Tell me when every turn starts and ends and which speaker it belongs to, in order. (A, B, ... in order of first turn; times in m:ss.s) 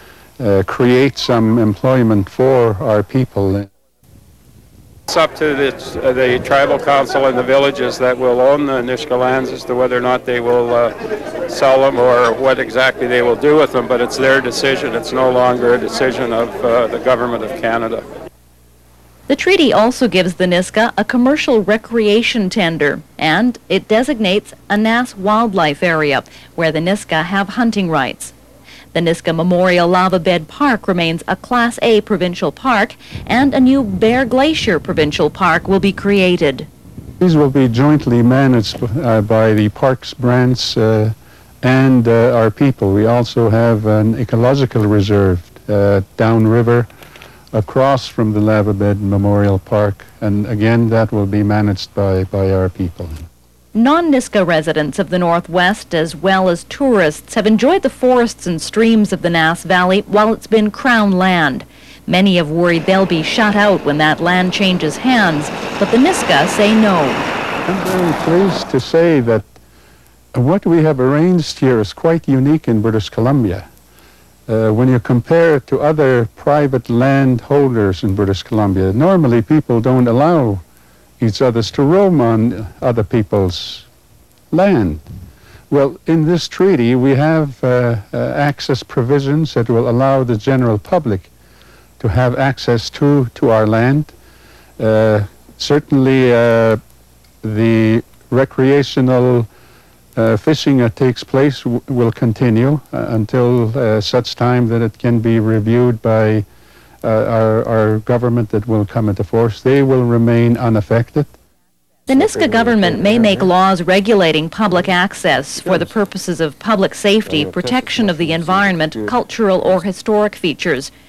0:00.4-0:03.7 A
0:05.1-0:10.9 B
0:11.5-0:18.1 B
0:19.3-0:28.3 C
0:28.9-0:36.7 C
0:37.2-0:46.9 A
0:47.5-0:53.2 A
0:53.7-1:07.2 C
1:07.6-1:09.5 A
1:10.3-1:13.7 A
1:14.5-1:20.6 A
1:21.2-1:23.8 A
1:24.5-1:25.0 A
1:25.7-1:31.3 A
1:32.0-1:34.1 A
1:34.8-1:36.8 A
1:37.4-1:39.5 A
1:40.2-1:46.4 A
1:47.0-1:51.3 A
1:52.1-2:00.9 C